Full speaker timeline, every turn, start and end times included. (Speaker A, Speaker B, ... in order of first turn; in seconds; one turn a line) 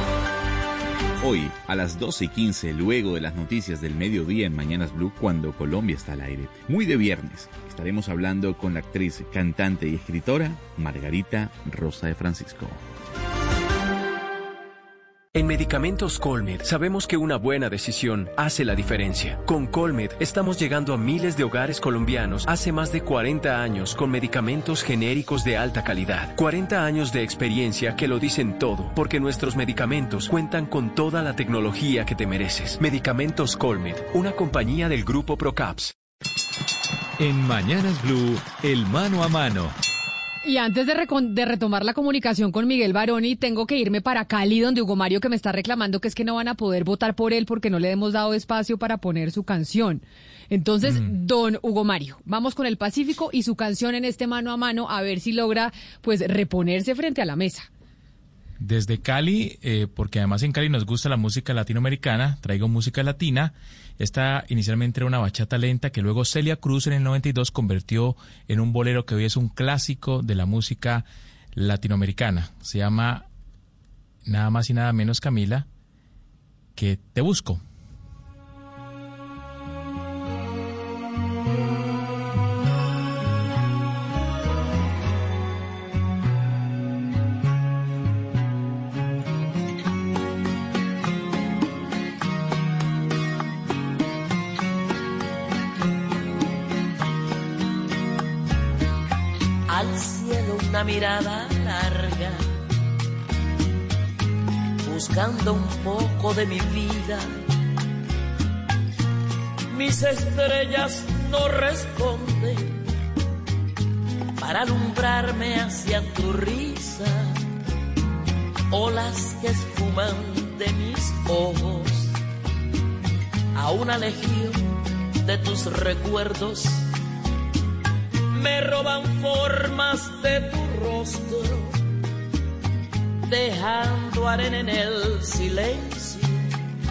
Speaker A: 1.2-12.8
Speaker B: 15.3-35.9
Speaker C: 37.2-39.8
Speaker D: 40.4-57.7
Speaker E: 58.6-73.2
Speaker E: 74.2-75.7
Speaker E: 76.8-77.6
Speaker F: 99.7-102.4
Speaker F: 104.8-107.3
Speaker F: 109.7-112.8
Speaker F: 114.4-117.3
Speaker F: 118.7-122.1
Speaker F: 123.5-126.8
Speaker F: 128.3-131.8
Speaker F: 133.3-136.4